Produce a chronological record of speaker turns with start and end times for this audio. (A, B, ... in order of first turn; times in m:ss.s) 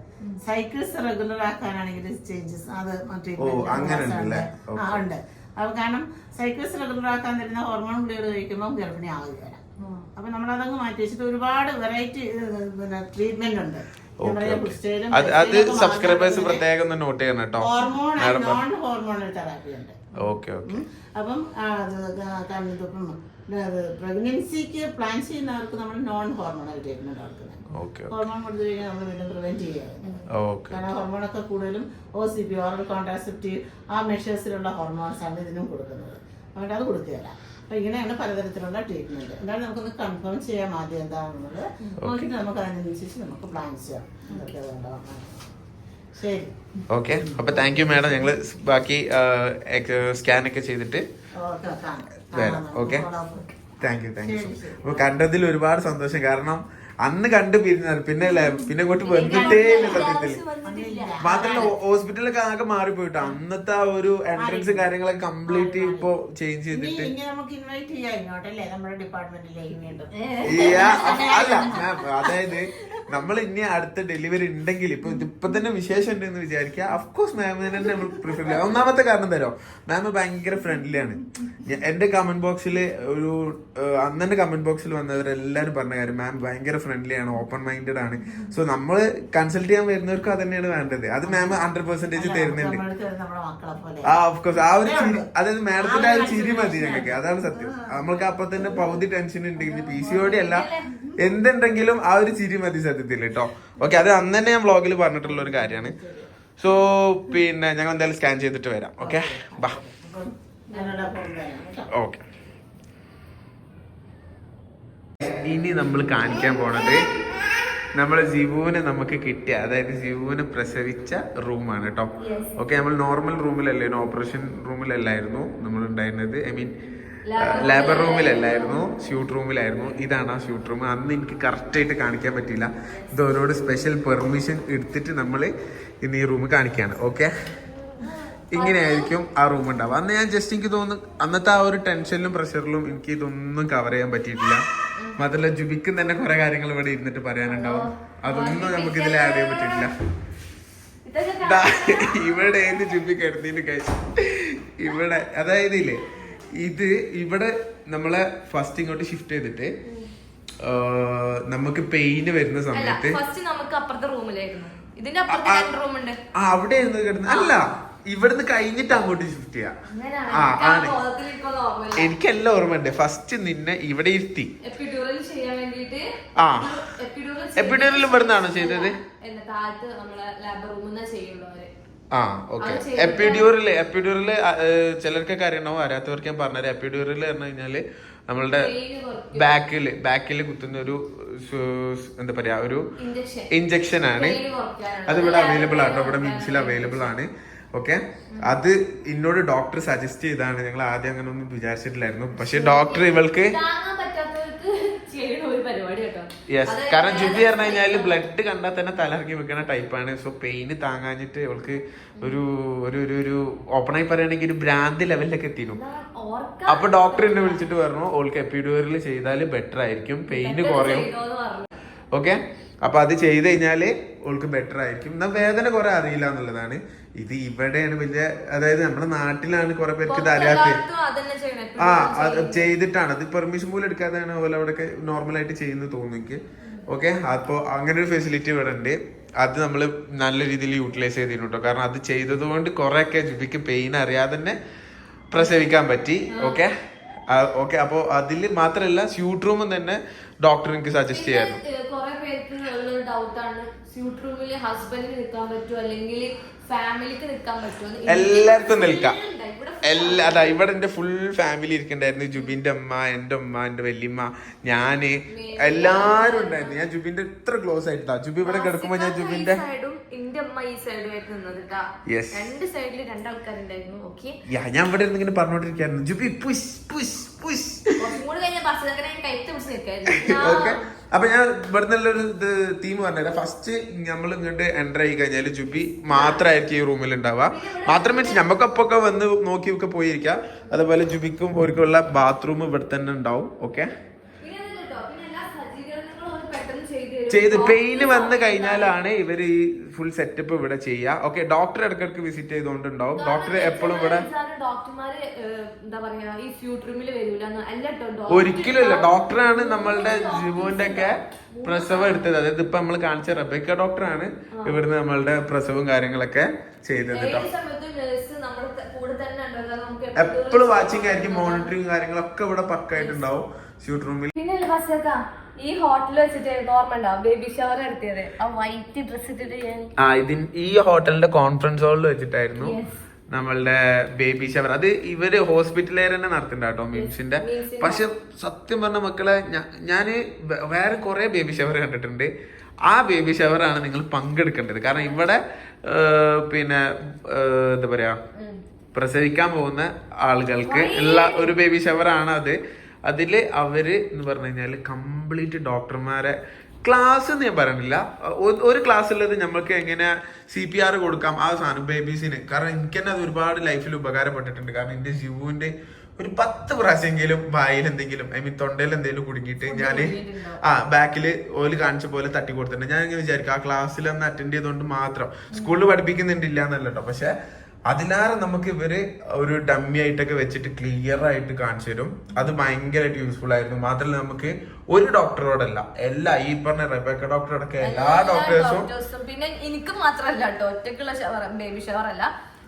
0:00.4-0:09.6 A
0:03.4-0:05.0 B
0:09.8-0:10.1 C
0:10.2-0:16.6 A
0:14.2-0:18.6 B
0:17.6-0:20.1 A
0:20.2-0:20.8 B
0:20.7-0:27.6 A
0:27.7-0:28.2 B
0:28.1-0:45.4 A
0:30.3-0:30.8 B
0:46.1-0:46.5 A
0:46.9-0:51.0 B
0:47.2-0:48.3 A
0:51.4-0:53.5 A
0:52.3-0:53.1 B
0:53.8-1:00.4 B
0:54.2-0:55.2 A
0:58.2-1:01.7 C
0:59.2-1:01.7 A
1:01.2-1:07.1 B
1:04.4-1:04.9 A
1:05.5-1:06.1 A
1:06.7-1:11.8 A
1:10.2-1:12.3 C
1:10.4-1:32.8 B
1:17.8-1:18.6 C
1:31.2-1:31.6 A
1:32.1-1:39.0 A
1:34.1-1:40.7 B
1:39.6-1:40.2 A
1:39.9-1:41.0 C
1:41.2-1:45.9 B
1:45.2-1:46.3 A
1:46.6-1:49.8 B
1:49.0-1:51.9 A
1:50.7-1:51.0 C
1:51.9-1:52.2 B
1:55.2-1:57.1 B
1:57.9-2:06.8 B
2:02.2-2:02.5 C
2:07.2-2:08.9 C
2:07.4-2:17.3 B
2:18.0-2:19.1 C
2:18.5-2:24.6 B
2:25.2-2:29.9 B
2:27.5-2:29.9 C
2:31.0-2:32.4 C
2:31.4-2:39.7 B
2:39.8-2:40.1 C
2:40.6-2:43.2 B
2:42.7-2:46.2 C
2:45.3-2:45.7 B
2:46.3-2:49.8 B
2:47.3-2:47.7 C
2:49.9-2:52.1 C
2:50.3-2:51.0 B
2:51.9-2:54.5 B
2:54.6-3:01.7 C
2:56.4-2:56.8 B
2:57.6-2:59.0 B
3:02.1-3:08.7 B
3:02.6-3:03.5 C
3:08.3-3:09.6 C
3:09.3-3:12.9 B
3:13.0-3:17.1 C
3:13.5-3:14.4 B
3:15.1-3:23.6 B
3:18.3-3:18.6 C
3:22.3-3:28.2 C
3:26.5-3:35.8 B
3:32.2-3:32.4 C
3:35.7-3:37.7 C
3:36.7-3:41.1 B
3:40.3-3:41.7 C
3:42.1-3:50.8 B
3:50.1-3:52.7 C
3:51.8-4:04.6 B
4:05.3-4:06.7 B
4:06.3-4:06.6 C
4:07.3-4:11.6 B
4:11.1-4:20.6 C
4:18.1-4:19.2 B
4:19.8-4:29.6 B
4:25.3-4:26.8 C
4:28.4-4:34.4 C
4:32.1-4:32.5 B
4:34.5-4:38.1 B
4:38.0-4:40.8 C
4:40.1-4:53.9 B
4:46.1-4:46.5 C
4:47.5-4:48.6 C
4:54.4-4:59.0 C
4:57.3-5:04.3 B
5:03.2-5:12.3 C
5:08.3-5:17.5 B
5:14.5-5:14.8 C
5:17.1-5:21.7 C
5:20.2-5:24.3 B
5:22.9-5:23.2 C
5:24.3-5:29.9 C
5:30.0-5:32.8 B
5:32.6-5:33.0 C
5:33.3-5:42.3 B
5:36.9-5:38.0 C
5:42.8-5:48.2 B
5:48.3-5:48.6 C
5:48.9-6:17.3 B
5:50.6-5:51.6 C
6:09.6-6:10.6 C
6:15.5-6:15.8 C
6:17.9-6:28.9 B
6:22.3-6:22.6 C
6:27.8-6:32.3 C